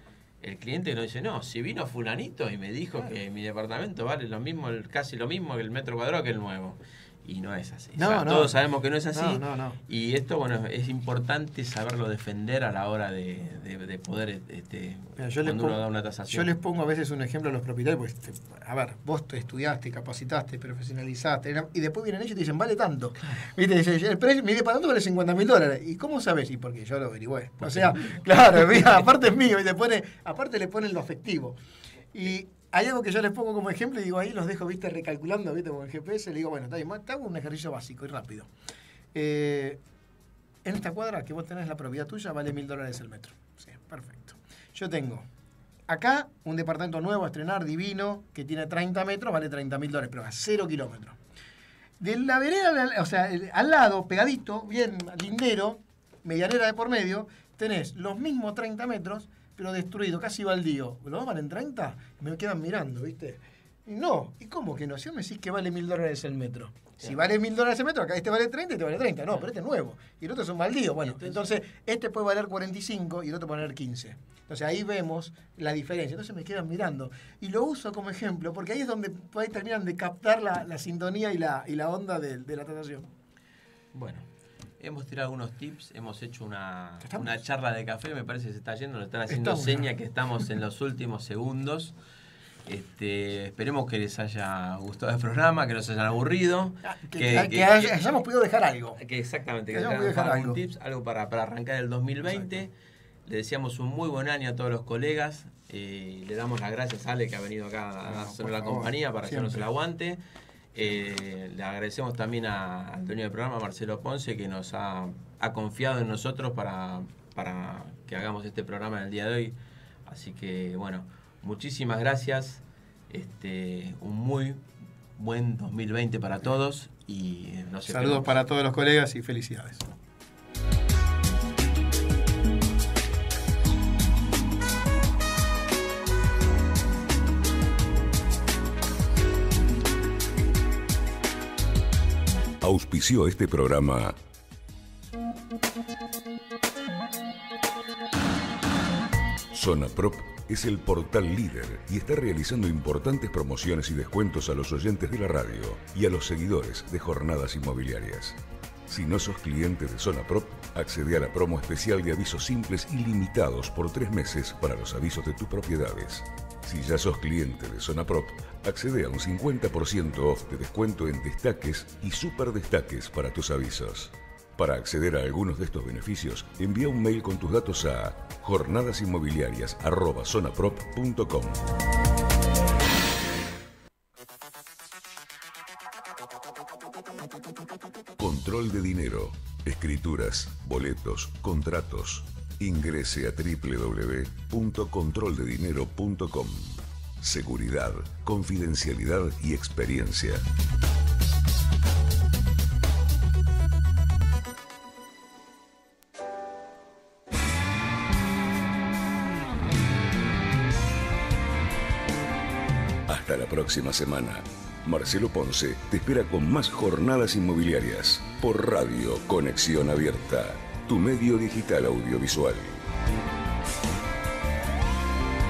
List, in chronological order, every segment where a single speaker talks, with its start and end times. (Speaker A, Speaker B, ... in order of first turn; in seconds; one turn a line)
Speaker A: 0.4-16.6
Speaker B: 8.0-8.6
Speaker B: 9.1-9.8
Speaker B: 15.2-31.6
Speaker A: 23.2-23.5
Speaker A: 27.6-28.8
Speaker B: 32.1-38.5
Speaker B: 39.1-39.8
Speaker B: 40.6-45.2
Speaker B: 45.9-51.2
Speaker B: 52.0-83.1
Speaker A: 71.0-71.4
Speaker A: 83.9-84.3
Speaker A: 84.8-92.0
Speaker B: 87.0-87.3
Speaker B: 89.3-89.9
Speaker A: 92.7-98.0
Speaker B: 96.8-99.0
Speaker A: 99.0-102.7
Speaker B: 99.7-100.6
Speaker A: 103.3-110.2
Speaker B: 108.1-109.7
Speaker A: 110.7-124.7
Speaker A: 125.2-128.4
Speaker B: 127.9-129.9
Speaker C: 142.6-144.2
Speaker C: 149.5-181.6
Speaker C: 188.2-200.4
Speaker C: 213.1-222.8